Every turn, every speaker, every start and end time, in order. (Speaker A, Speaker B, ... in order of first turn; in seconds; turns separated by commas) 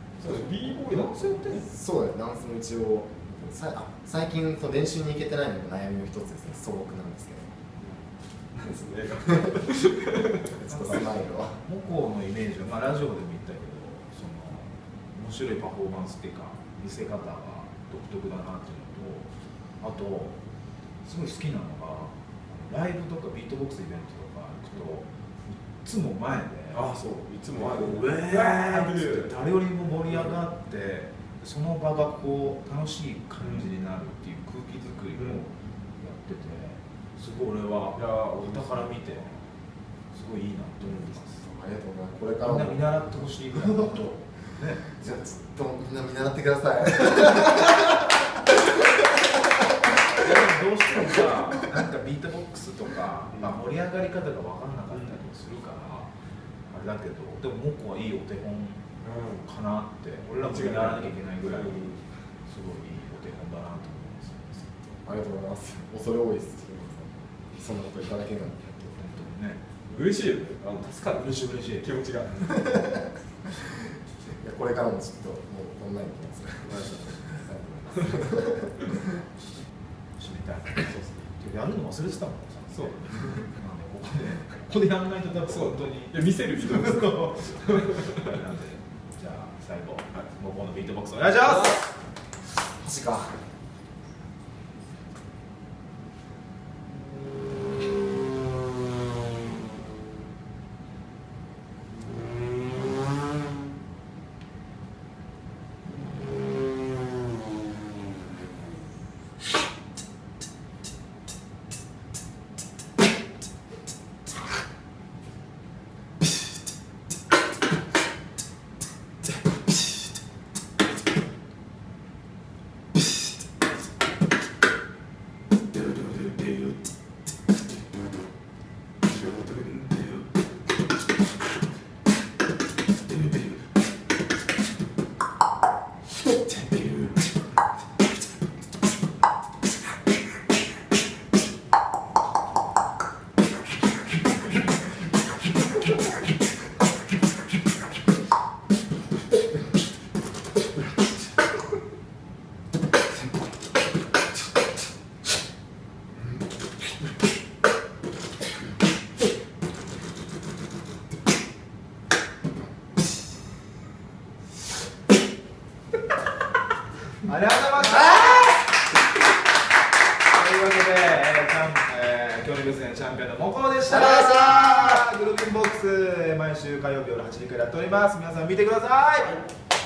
Speaker A: 0.2-1.7, Speaker B: 0.9-1.6, Speaker C: 1.6-7.5, Speaker A: 8.6-10.6, Speaker C: 10.6-11.6, Speaker B: 10.7-20.4, Speaker B: 21.0-26.9, Speaker A: 26.7-29.3, Speaker B: 27.6-39.4, Speaker A: 33.4-33.7, Speaker A: 38.0-38.9, Speaker B: 40.1-41.4, Speaker C: 41.4-42.9, Speaker B: 42.4-44.9, Speaker C: 44.9-48.9, Speaker B: 50.0-56.1, Speaker B: 56.7-58.9, Speaker A: 59.0-59.5, Speaker B: 59.4-61.9, Speaker A: 60.4-62.0, Speaker B: 62.5-65.0, Speaker C: 65.0-69.0, Speaker B: 69.0-69.6, Speaker A: 69.9-72.8, Speaker B: 71.1-71.9, Speaker C: 72.5-79.0, Speaker A: 76.7-77.1, Speaker B: 80.2-91.9, Speaker A: 80.9-81.2, Speaker A: 82.7-83.3, Speaker A: 85.4-88.3, Speaker C: 92.8-93.4, Speaker A: 129.7-129.9, Speaker B: 167.2-168.6, Speaker B: 170.2-179.4, Speaker C: 173.9-175.0